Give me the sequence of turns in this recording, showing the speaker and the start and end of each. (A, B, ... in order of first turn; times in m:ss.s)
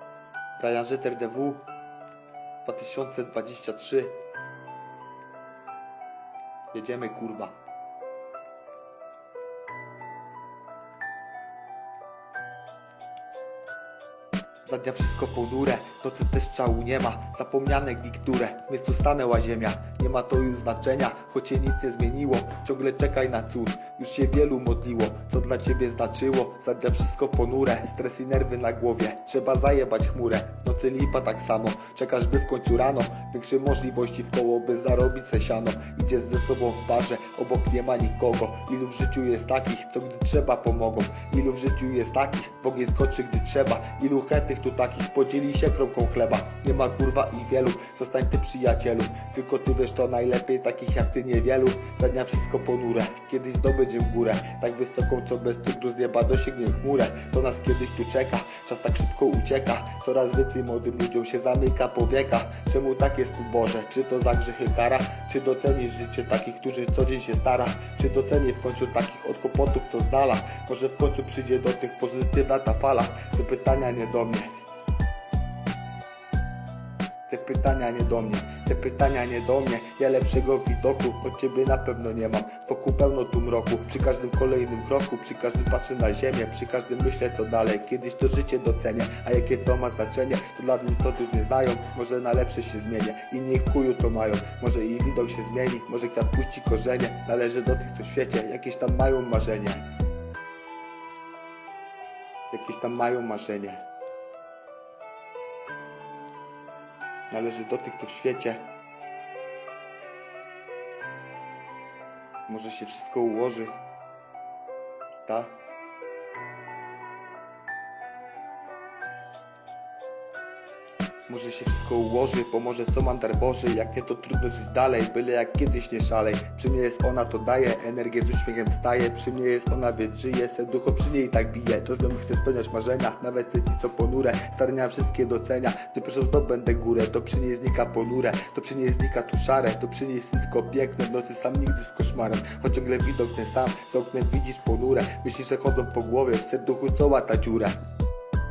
0:00.6-0:01.7 A
0:02.6-0:04.2 A
0:06.7-0:07.6 A
0:14.7-1:14.5 A
1:17.3-1:39.9 A
1:42.5-1:43.8 A
1:47.3-1:48.7 A
1:52.5-1:53.8 A
1:55.3-1:55.6 A
2:01.3-2:27.8 A